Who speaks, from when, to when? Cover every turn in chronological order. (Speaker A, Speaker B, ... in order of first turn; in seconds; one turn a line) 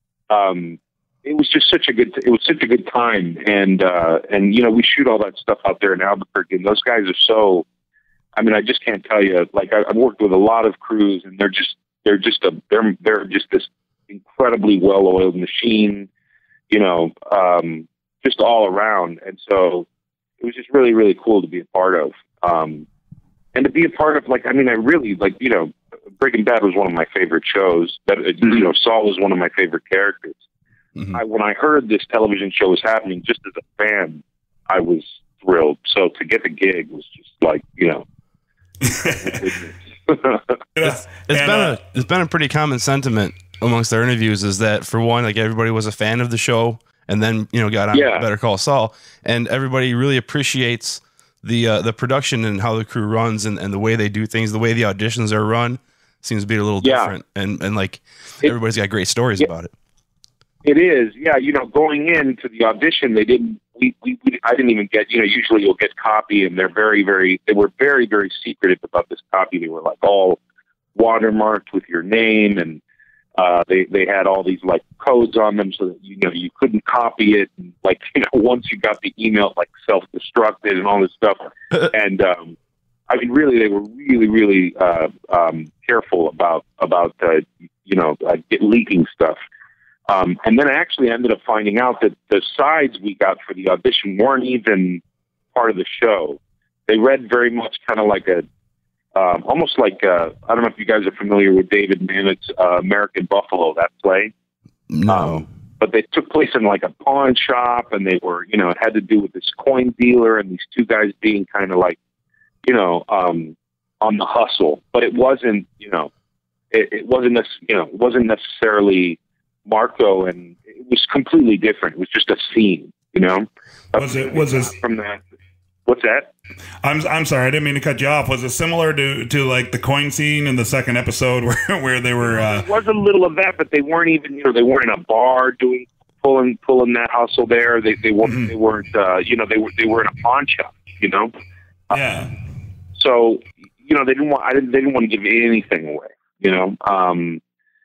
Speaker A: 0.3-7.7
Speaker A: 8.3-16.1
Speaker A: 16.7-19.9
Speaker A: 20.4-22.9
Speaker A: 23.5-30.4
Speaker A: 31.1-38.0
Speaker B: 38.8-39.4
Speaker A: 39.0-40.9
Speaker B: 40.8-41.8
Speaker C: 41.2-59.7
Speaker A: 47.9-48.2
Speaker A: 56.8-57.1
Speaker A: 60.6-70.4
Speaker A: 70.9-72.8
Speaker A: 73.4-82.5
Speaker A: 83.1-89.4
Speaker A: 90.1-95.0
Speaker A: 95.5-98.4
Speaker A: 99.1-104.3
Speaker C: 104.9-105.4
Speaker A: 105.1-112.0
Speaker A: 112.6-116.1
Speaker A: 116.7-125.2
Speaker B: 123.9-124.7
Speaker A: 125.8-126.3
Speaker B: 126.8-132.7
Speaker A: 132.3-141.3
Speaker B: 138.2-138.5
Speaker B: 141.9-142.3
Speaker A: 142.9-147.4